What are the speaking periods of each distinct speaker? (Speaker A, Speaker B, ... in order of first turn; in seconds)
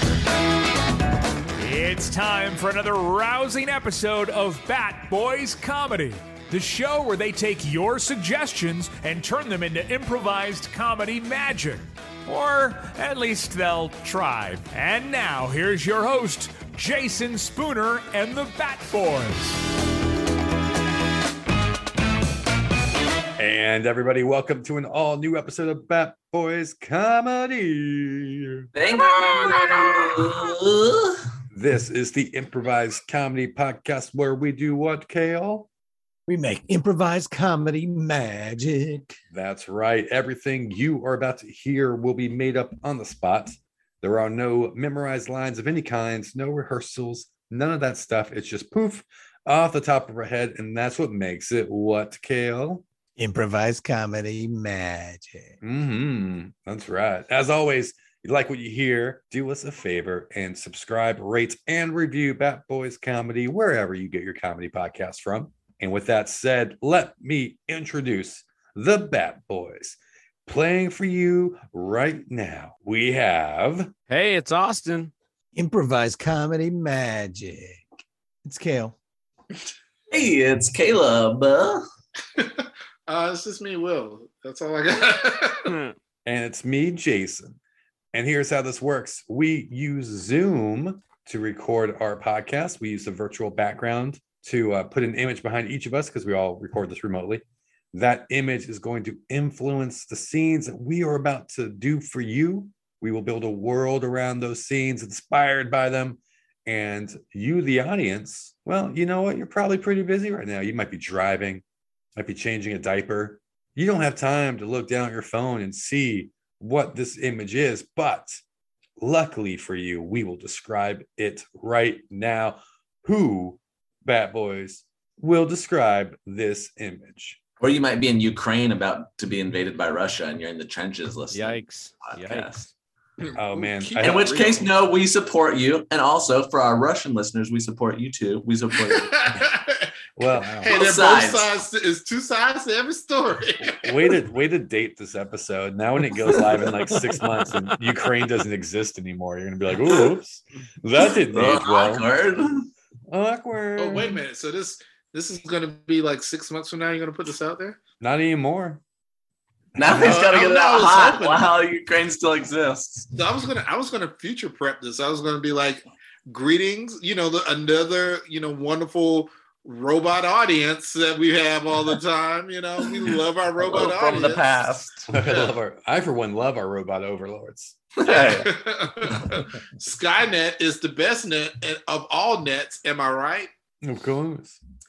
Speaker A: 1.6-19.6
Speaker B: 23.4-28.7, 31.5-35.7, 39.3-52.9, 55.6-73.9, 86.2-87.6, 88.1-111.6, 112.2-118.4, 119.0-127.4, 133.4-134.3, 140.2-140.6, 143.7-152.1, 153.1-154.2, 158.0-158.8, 175.1-177.8, 183.8-184.6
Speaker C: 28.8-31.2, 80.1-81.8, 127.6-132.6, 134.0-139.3, 140.7-141.6, 146.3-146.9, 149.8-150.1, 151.3-152.7, 159.8-163.1, 173.6-175.1, 178.0-178.5
Speaker D: 36.3-39.1, 53.2-55.5, 75.5-77.8, 78.5-79.0, 140.2-140.7
Speaker E: 74.1-75.1, 85.7-85.9, 131.3-132.7
Speaker F: 82.4-85.7, 133.2-134.8, 138.9-139.9, 140.6-143.9, 153.8-157.8, 159.8-161.4, 163.1-174.5, 175.2-175.6, 178.1-183.5